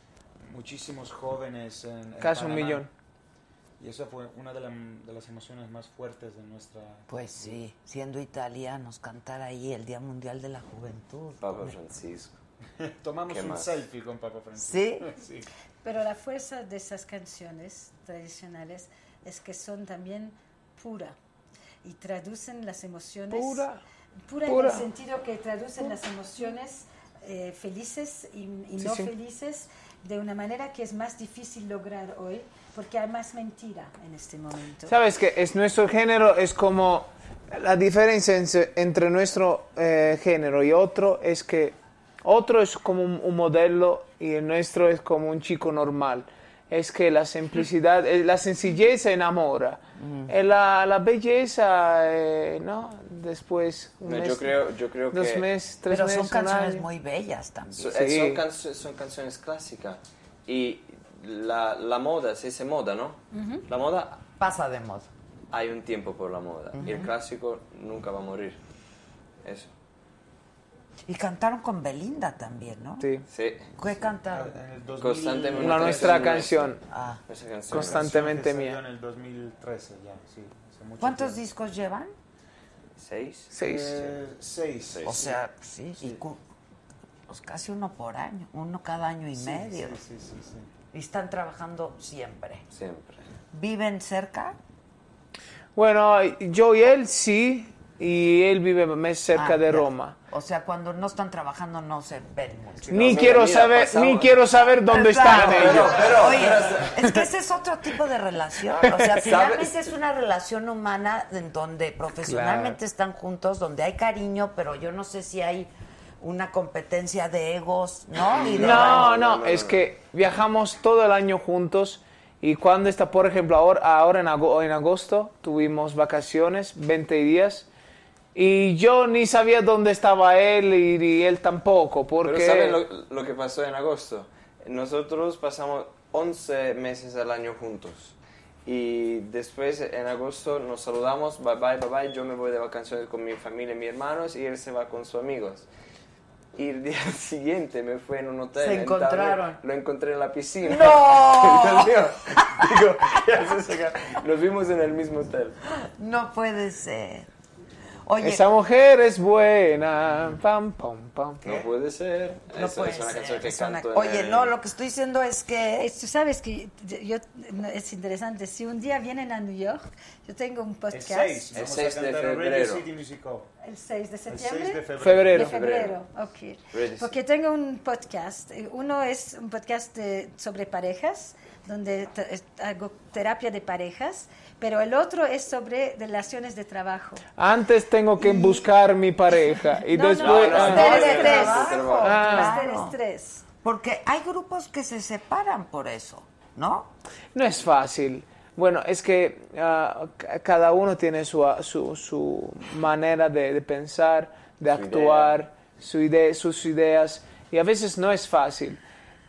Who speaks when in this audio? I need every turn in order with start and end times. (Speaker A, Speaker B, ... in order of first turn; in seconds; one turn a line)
Speaker A: 0.4-2.9
Speaker B: 2.2-2.9
Speaker A: 3.8-7.1
Speaker C: 7.1-11.8
Speaker D: 11.4-12.4
Speaker A: 12.8-15.5
Speaker D: 13.3-13.8
Speaker C: 14.6-15.1
Speaker E: 15.8-21.1
Speaker E: 21.8-23.7
Speaker B: 23.3-23.8
Speaker E: 24.3-35.0
Speaker B: 24.4-24.9
Speaker B: 28.8-29.1
Speaker B: 34.9-54.5
Speaker C: 50.0-50.3
Speaker D: 54.0-55.5
Speaker B: 55.1-56.9
Speaker C: 55.9-58.0
Speaker D: 57.7-64.2
Speaker B: 57.9-58.4
Speaker E: 63.3-63.6
Speaker C: 64.4-65.1
Speaker D: 65.5-68.6
Speaker C: 66.7-67.1
Speaker D: 69.4-69.7
Speaker C: 71.0-73.1
Speaker B: 73.0-73.3
Speaker D: 73.3-73.7
Speaker C: 73.8-74.5
Speaker A: 74.3-76.5
Speaker D: 75.0-76.8
Speaker B: 75.5-76.8
Speaker C: 76.9-77.2
Speaker D: 77.3-78.2
Speaker B: 77.7-78.8
Speaker A: 77.8-81.4
Speaker C: 81.0-82.1
Speaker D: 83.0-83.5
Speaker B: 83.5-84.2
Speaker A: 83.6-85.4
Speaker D: 84.9-85.3
Speaker C: 85.0-86.4
Speaker C: 87.3-90.0
Speaker A: 89.4-90.7
Speaker C: 90.9-92.6
Speaker D: 92.7-93.2
Speaker C: 93.5-94.6
Speaker B: 95.7-100.2
Speaker C: 99.3-103.1
Speaker B: 102.9-106.0
Speaker D: 102.9-107.0
Speaker C: 104.9-119.1
Speaker B: 108.8-109.1
Speaker D: 109.2-109.8
Speaker B: 112.2-112.8
Speaker D: 118.3-119.9
Speaker B: 118.5-127.7
Speaker B: 128.3-132.8
Speaker D: 132.2-145.7
Speaker D: 146.6-155.6
Speaker C: 148.6-149.6
Speaker C: 150.6-152.1
Speaker C: 155.7-157.3
Speaker C: 158.1-158.5
Speaker B: 158.2-161.5
Speaker D: 161.4-164.5
Speaker C: 162.5-165.9
Speaker E: 165.8-171.5
Speaker A: 170.9-173.5
Speaker D: 171.5-172.8
Speaker E: 173.6-187.2
Speaker A: 174.3-175.5
Speaker B: 175.0-175.5
Speaker D: 175.3-176.0
Speaker D: 176.7-177.1
Speaker B: 187.4-191.1
Speaker E: 188.2-188.7
Speaker E: 189.3-193.4
Speaker D: 190.2-192.3
Speaker C: 190.5-193.0
Speaker B: 192.0-192.6
Speaker C: 193.6-196.9
Speaker B: 197.3-208.8
Speaker D: 204.7-205.4